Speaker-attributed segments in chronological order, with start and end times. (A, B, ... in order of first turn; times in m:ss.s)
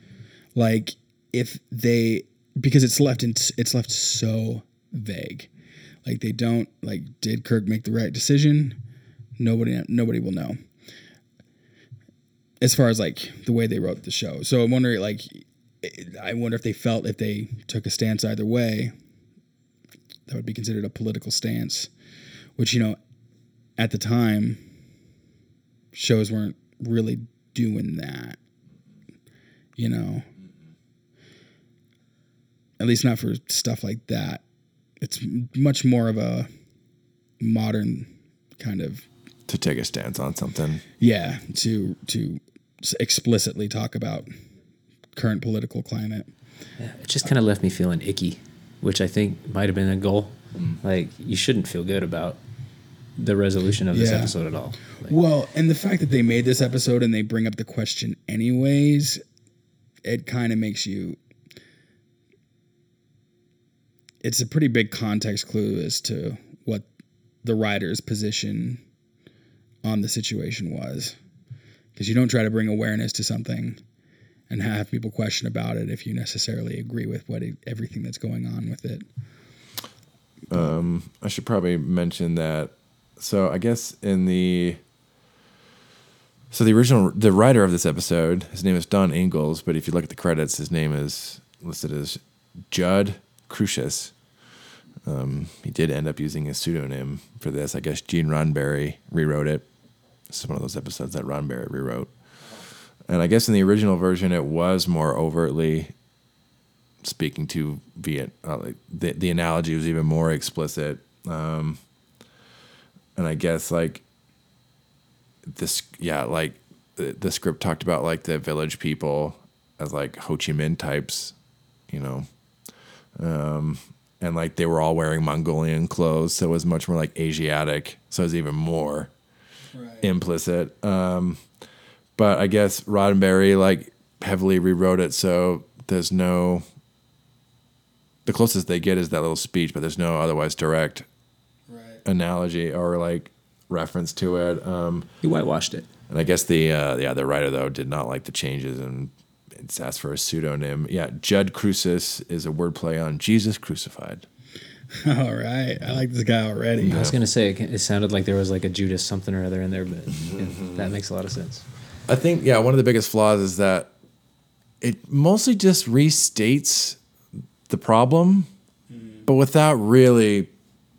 0:00.6-0:05.5 A
0:06.0-0:08.8 A
0:09.4-0:10.6 A
0:12.6-0:18.9 A
0:20.3-0:21.9 A
0:22.6-0:23.0 A
0:23.8-0:24.6 A
0:25.9-0:28.4 A
0:29.8-0:30.3 A
0:32.8-0:34.4 A
0:35.0-0:36.5 A
0:37.4-0:39.1 A
0:39.5-0:40.8 B
0:41.0-0:44.3 A
0:45.2-0:46.3 A
0:46.8-0:52.4 C
0:53.2-0:55.2 C
0:53.9-0:54.4 A
0:55.0-0:59.2 A
1:00.0-1:01.2 A
1:04.2-1:06.9 A
1:07.4-1:08.8 A
1:09.8-1:11.2 A
1:12.0-1:13.8 A
1:14.5-1:19.0 A
1:20.5-1:24.8 B
1:26.5-1:32.2 B
1:32.7-1:34.1 B
1:35.0-1:39.6 B
1:40.3-1:42.1 B
1:43.1-1:45.9 B
1:47.0-1:51.8 B
1:53.2-1:54.0 B
1:55.5-2:01.3 B
2:01.9-2:02.3 B
2:03.2-2:09.1 B
2:09.7-2:10.1 A
2:10.0-2:11.4 B
2:12.2-2:16.6 B
2:18.3-2:21.1 B
2:21.7-2:22.0 A
2:22.0-2:25.1 B
2:25.2-2:25.9 C
2:26.1-2:34.2 B
2:35.0-2:37.1 A
2:36.8-2:37.1 B
2:36.8-2:41.6 C
2:40.2-2:40.9 B
2:42.1-2:43.9 B
2:44.8-2:47.0 B
2:47.7-2:48.5 B
2:48.9-2:49.2 A
2:49.3-2:50.5 B